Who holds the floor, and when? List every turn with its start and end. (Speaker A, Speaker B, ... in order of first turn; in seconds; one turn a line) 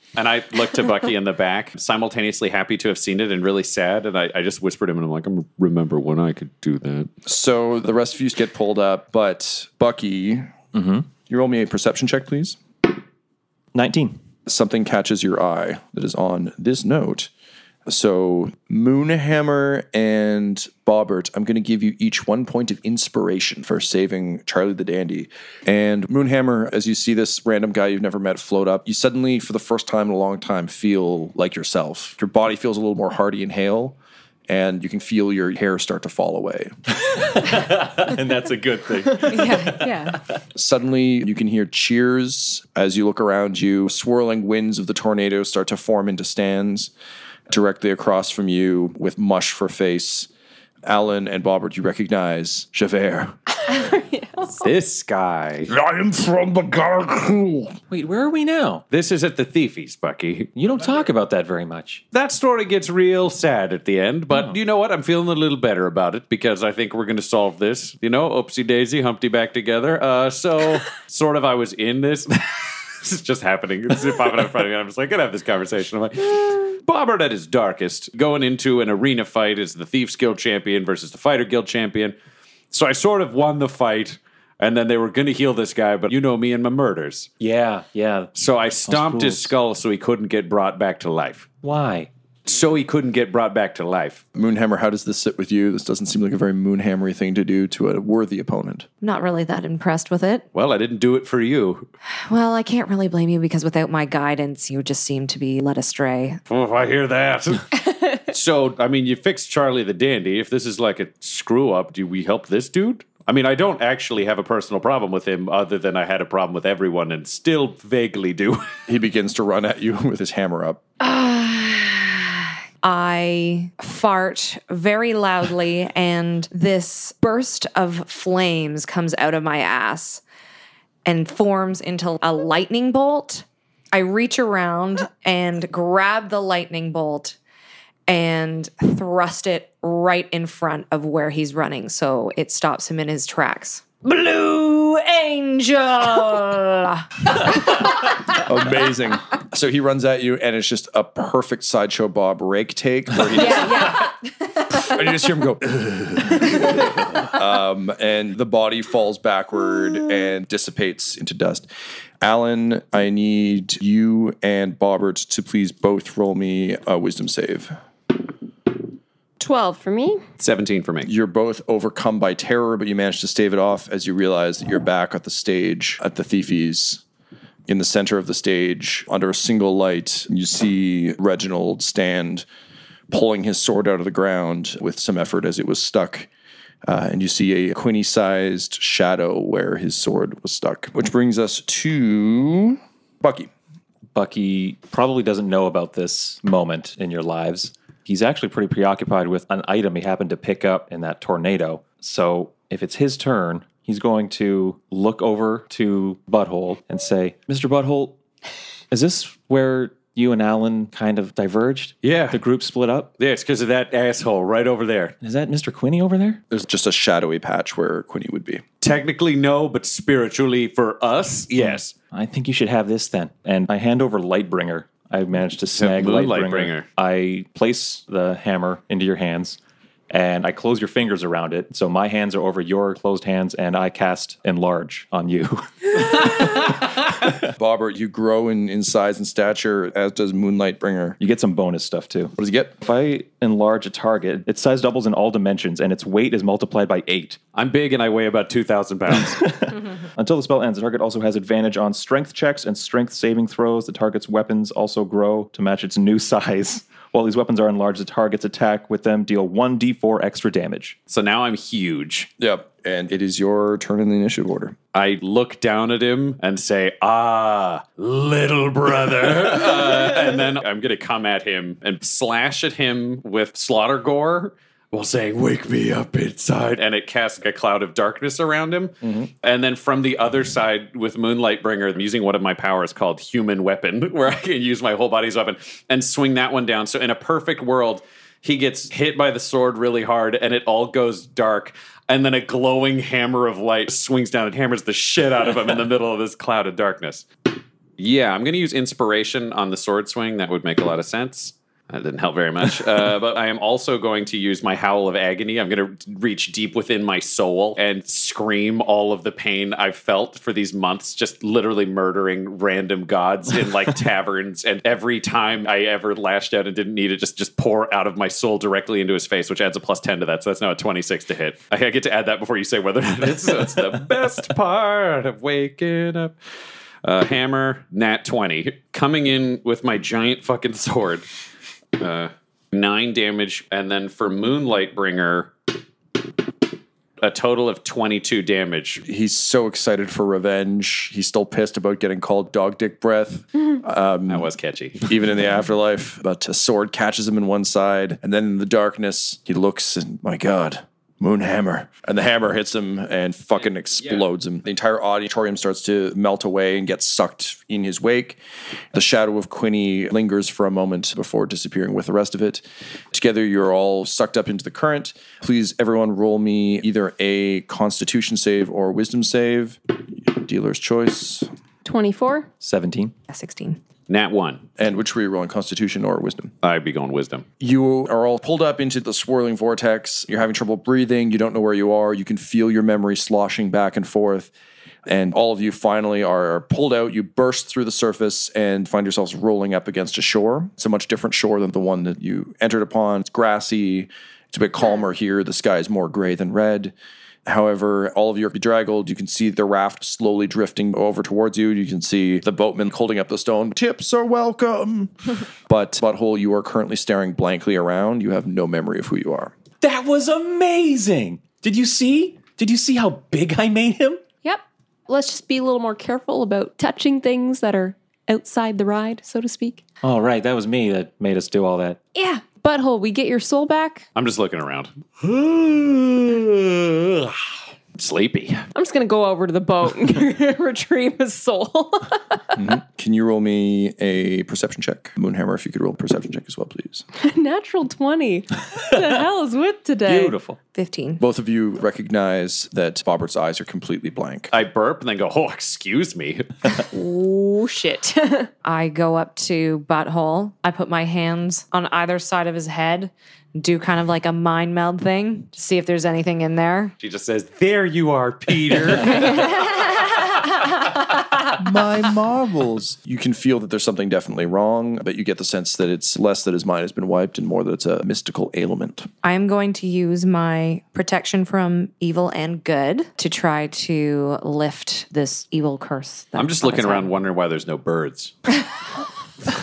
Speaker A: 0.2-7.1
Speaker B: 7.3-10.5
Speaker C: 10.7-11.1
Speaker B: 11.3-12.6
Speaker C: 13.7-14.2
Speaker B: 14.5-17.3
Speaker B: 17.9-34.0
Speaker B: 34.5-36.7
Speaker C: 37.0-40.4
Speaker D: 39.3-40.2
Speaker B: 40.5-46.9
Speaker B: 47.5-50.3
Speaker B: 50.9-53.4
Speaker E: 53.6-54.7
Speaker A: 54.6-55.7
Speaker B: 55.7-57.8
Speaker C: 57.9-58.8
Speaker A: 58.9-60.5
Speaker C: 60.6-62.0
Speaker A: 62.1-82.2
Speaker C: 64.3-64.6
Speaker A: 82.7-87.3
Speaker C: 87.4-88.3
Speaker A: 88.4-91.5
Speaker C: 88.8-89.5
Speaker C: 91.6-92.1
Speaker A: 92.5-94.2
Speaker B: 94.3-98.9
Speaker D: 99.0-100.5
Speaker A: 100.5-101.9
Speaker D: 102.3-106.4
Speaker A: 106.5-107.8
Speaker A: 108.3-118.8
Speaker B: 118.9-120.8
Speaker D: 121.0-130.2
Speaker D: 131.1-137.4
Speaker D: 138.1-148.2
Speaker B: 148.4-154.0
Speaker D: 153.4-154.1
Speaker B: 154.7-161.7
Speaker B: 162.2-167.8
Speaker E: 169.4-170.2
Speaker A: 170.4-171.1
Speaker B: 171.0-177.0
Speaker B: 177.7-182.5
Speaker B: 183.1-186.3
Speaker B: 186.9-193.5
Speaker C: 194.1-208.2
Speaker C: 208.9-213.1
Speaker A: 212.0-212.4
Speaker A: 213.2-215.2
Speaker C: 215.2-216.4
Speaker B: 216.5-218.6
Speaker A: 218.8-221.9
Speaker C: 221.6-229.6
Speaker A: 225.7-226.9
Speaker C: 230.1-236.6
Speaker B: 237.5-241.2
Speaker C: 241.2-247.4
Speaker B: 242.4-242.8
Speaker A: 247.5-249.4
Speaker C: 249.4-261.0
Speaker A: 261.1-262.3
Speaker B: 262.4-264.8
Speaker A: 264.9-297.3
Speaker B: 279.0-279.3
Speaker A: 298.0-326.4
Speaker A: 327.0-331.3
Speaker A: 332.0-335.5
Speaker A: 337.2-339.0
Speaker B: 339.1-344.5
Speaker A: 344.3-345.1
Speaker B: 345.0-358.4
Speaker B: 358.9-371.5
Speaker E: 371.8-372.5
Speaker C: 372.6-373.1
Speaker D: 373.3-373.8
Speaker A: 374.1-374.6
Speaker B: 374.8-376.5
Speaker A: 376.6-377.4
Speaker B: 377.6-384.5
Speaker B: 385.1-396.9
Speaker B: 397.5-405.1
Speaker B: 405.7-409.5
Speaker C: 409.8-414.2
Speaker E: 414.4-419.8
Speaker C: 420.0-422.0
Speaker E: 422.1-424.1
Speaker A: 424.2-428.7
Speaker E: 428.8-432.6
Speaker B: 432.6-437.1
Speaker E: 437.2-440.4
Speaker C: 440.1-440.6
Speaker D: 440.7-441.2
Speaker B: 441.2-444.5
Speaker A: 444.5-446.5
Speaker E: 446.9-448.5
Speaker D: 448.6-456.9
Speaker A: 457.0-460.8
Speaker B: 461.6-469.1
Speaker D: 469.2-477.1
Speaker A: 476.4-478.3